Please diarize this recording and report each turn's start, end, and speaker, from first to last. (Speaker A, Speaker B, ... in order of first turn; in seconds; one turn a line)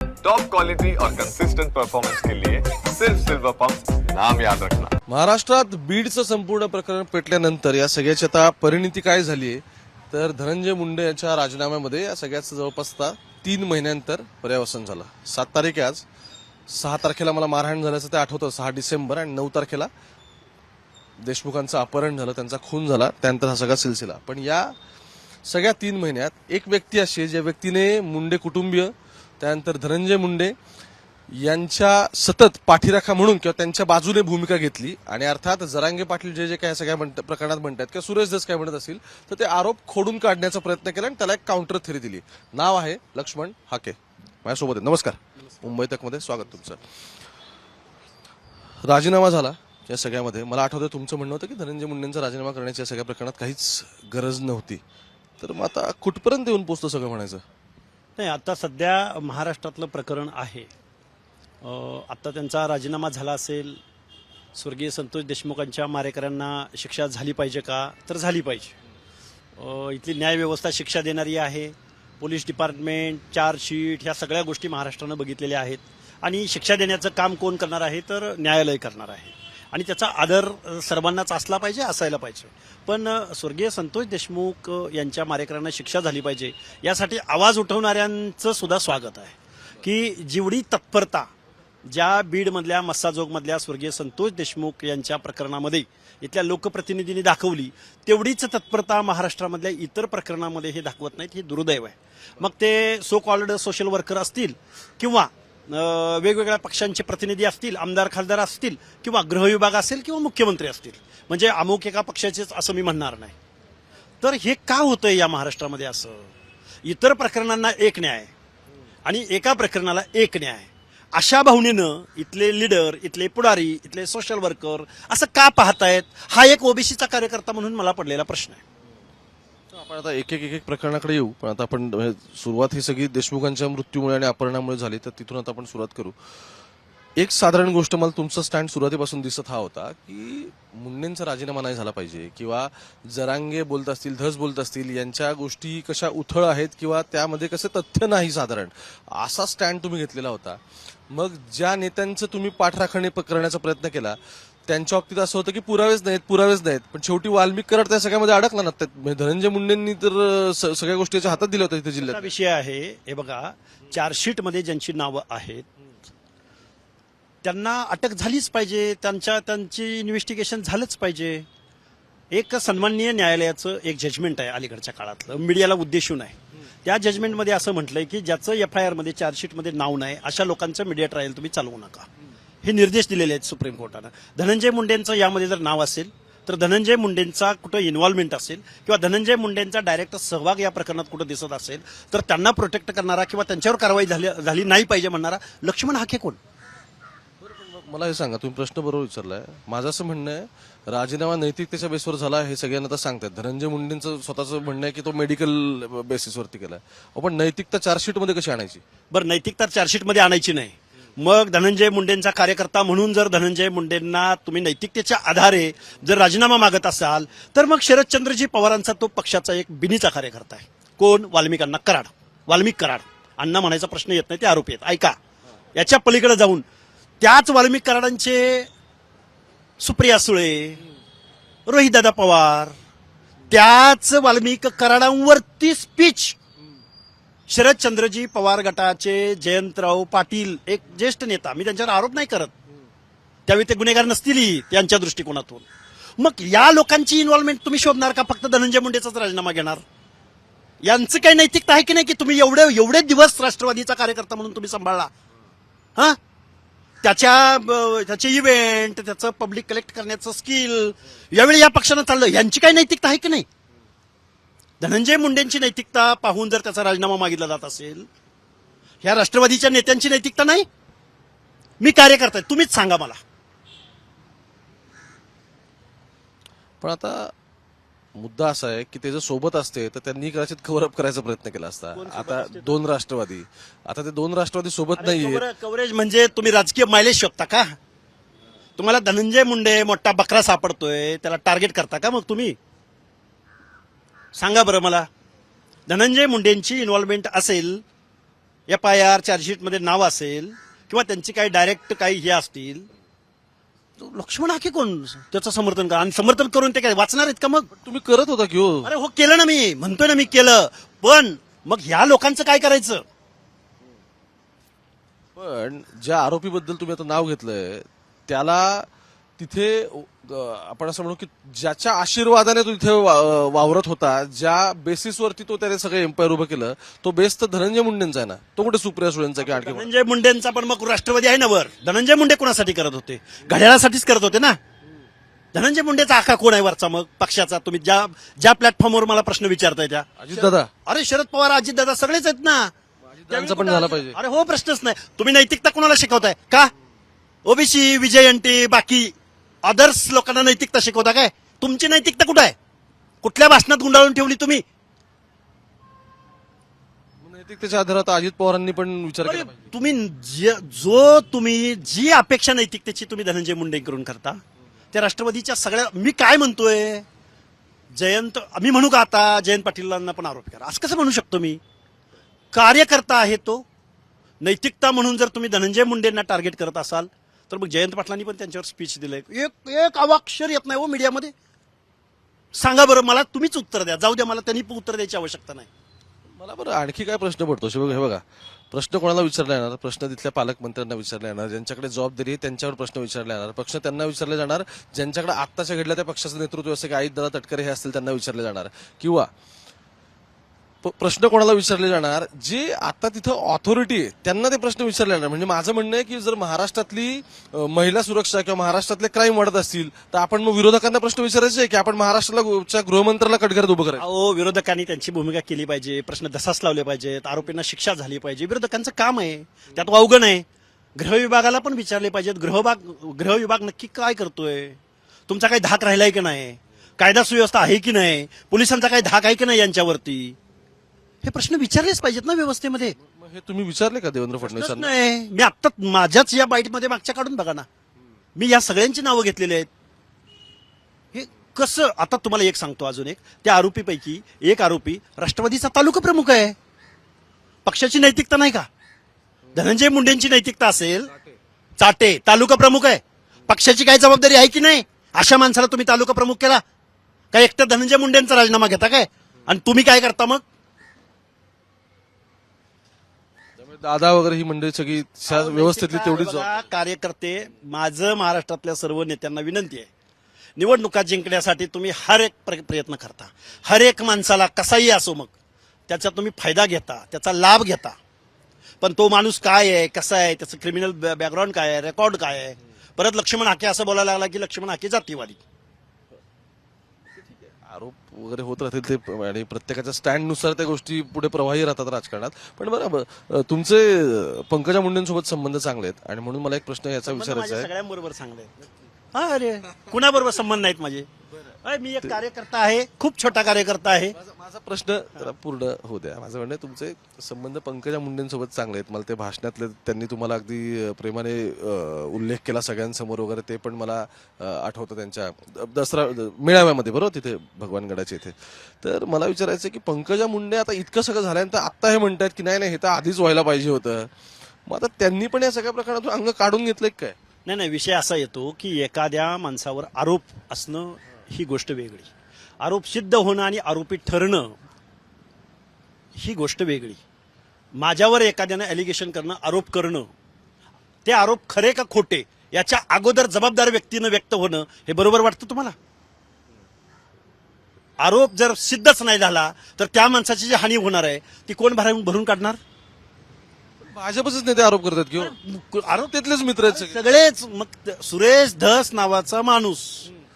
Speaker A: 0.2-4.9
Speaker B: 5.1-16.1
Speaker B: 16.7-19.9
Speaker B: 21.2-24.7
Speaker B: 25.5-30.5
Speaker B: 31.3-46.8
Speaker C: 45.5-45.8
Speaker B: 48.9-54.8
Speaker B: 55.4-57.4
Speaker C: 58.2-60.7
Speaker C: 61.6-63.8
Speaker C: 64.5-68.8
Speaker C: 69.6-91.3
Speaker C: 91.9-113.3
Speaker C: 114.2-116.3
Speaker C: 116.8-118.3
Speaker C: 119.0-128.6
Speaker B: 129.7-136.2
Speaker B: 137.2-162.3
Speaker C: 162.0-165.7
Speaker C: 167.4-171.5
Speaker C: 172.3-182.1
Speaker C: 182.6-196.4
Speaker B: 197.4-208.8
Speaker C: 209.1-225.2
Speaker C: 225.8-226.7
Speaker C: 227.2-228.7
Speaker C: 229.8-230.8
Speaker C: 231.7-232.8
Speaker C: 233.5-236.4
Speaker C: 237.5-242.5
Speaker C: 243.5-245.7
Speaker C: 246.2-249.8
Speaker C: 250.8-255.1
Speaker C: 257.0-263.5
Speaker C: 264.8-268.1
Speaker C: 269.0-270.7
Speaker C: 271.8-273.2
Speaker B: 276.8-277.3
Speaker B: 278.2-285.5
Speaker C: 281.9-282.8
Speaker C: 285.0-287.8
Speaker C: 288.8-292.6
Speaker C: 294.4-295.1
Speaker C: 295.9-297.8
Speaker C: 298.7-302.9
Speaker C: 304.0-307.7
Speaker B: 307.7-308.9
Speaker C: 308.8-313.0
Speaker B: 315.4-329.9
Speaker C: 329.4-334.6
Speaker C: 335.5-342.7
Speaker B: 340.2-340.7
Speaker B: 343.1-344.2
Speaker C: 343.3-346.7
Speaker C: 347.4-352.6
Speaker C: 353.2-354.6
Speaker B: 357.2-359.5
Speaker C: 359.2-364.4
Speaker C: 364.9-367.1
Speaker C: 367.9-371.6
Speaker C: 372.5-373.6
Speaker C: 374.4-381.3
Speaker C: 382.6-385.7
Speaker B: 386.4-399.3
Speaker B: 400.8-414.1
Speaker C: 414.0-420.4
Speaker C: 421.0-430.4
Speaker C: 431.2-433.0
Speaker B: 433.0-434.9
Speaker C: 434.4-437.7
Speaker C: 438.4-439.7
Speaker C: 441.1-446.6
Speaker C: 447.6-448.7
Speaker C: 449.5-451.1
Speaker C: 451.8-456.6
Speaker C: 457.3-460.4
Speaker B: 463.6-466.5
Speaker C: 465.3-469.9
Speaker C: 470.6-475.3
Speaker C: 475.9-478.0
Speaker C: 478.8-485.4
Speaker B: 487.6-497.7
Speaker C: 497.1-498.5
Speaker C: 499.1-501.1
Speaker C: 501.6-504.2
Speaker B: 504.2-524.1
Speaker B: 524.7-527.2
Speaker C: 527.5-534.5
Speaker C: 536.1-537.0
Speaker C: 537.8-540.1
Speaker C: 541.0-545.8
Speaker C: 548.0-552.6
Speaker B: 553.8-555.4
Speaker C: 555.2-560.1
Speaker B: 556.0-557.1